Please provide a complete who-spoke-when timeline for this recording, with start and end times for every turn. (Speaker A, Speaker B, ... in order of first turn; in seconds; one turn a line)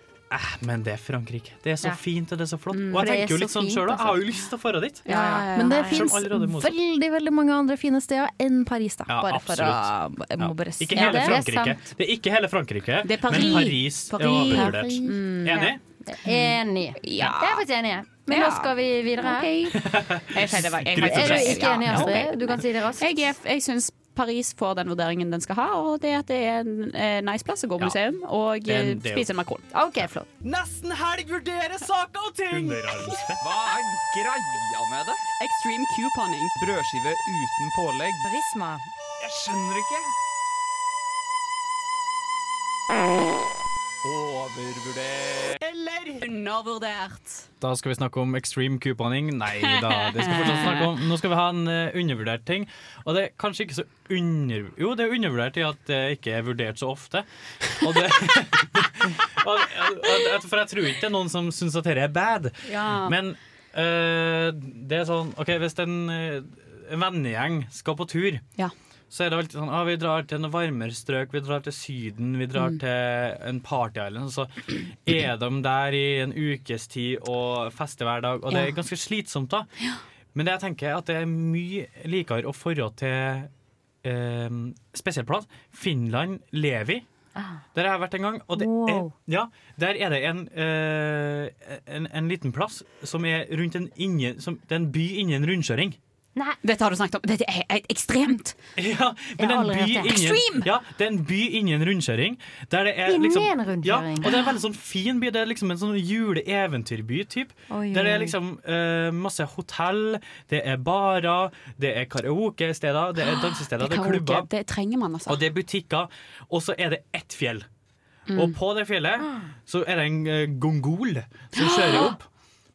Speaker A: 0.3-5.0
Speaker B: 2.7-3.0
Speaker C: 2.9-4.2
Speaker C: 5.0-6.0
Speaker B: 5.0-6.0
Speaker D: 5.5-11.3
Speaker A: 5.7-6.8
Speaker A: 9.1-15.8
Speaker C: 10.9-11.8
Speaker B: 13.0-15.7
Speaker D: 14.5-15.1
Speaker C: 16.1-19.5
Speaker B: 17.0-17.6
Speaker B: 18.3-29.6
Speaker A: 19.7-22.1
Speaker C: 21.0-23.2
Speaker A: 28.6-29.3
Speaker C: 29.7-30.2
Speaker E: 30.4-35.2
Speaker A: 32.5-33.4
Speaker B: 35.4-36.5
Speaker E: 36.5-38.3
Speaker C: 38.2-38.9
Speaker E: 39.2-40.1
Speaker E: 44.0-46.2
Speaker B: 46.2-47.5
Speaker A: 47.6-68.4
Speaker B: 49.7-50.9
Speaker B: 62.6-63.1
Speaker A: 69.1-79.7
Speaker A: 80.3-83.5
Speaker A: 84.0-87.0
Speaker C: 87.3-87.6
Speaker A: 87.7-96.0
Speaker C: 88.5-89.1
Speaker B: 96.6-98.5
Speaker A: 98.8-114.5
Speaker C: 99.4-100.2
Speaker B: 100.0-100.7
Speaker C: 103.0-104.3
Speaker C: 107.7-108.3
Speaker B: 113.2-115.4
Speaker A: 115.3-117.6
Speaker B: 118.3-118.5
Speaker A: 118.3-122.2
Speaker B: 121.6-122.1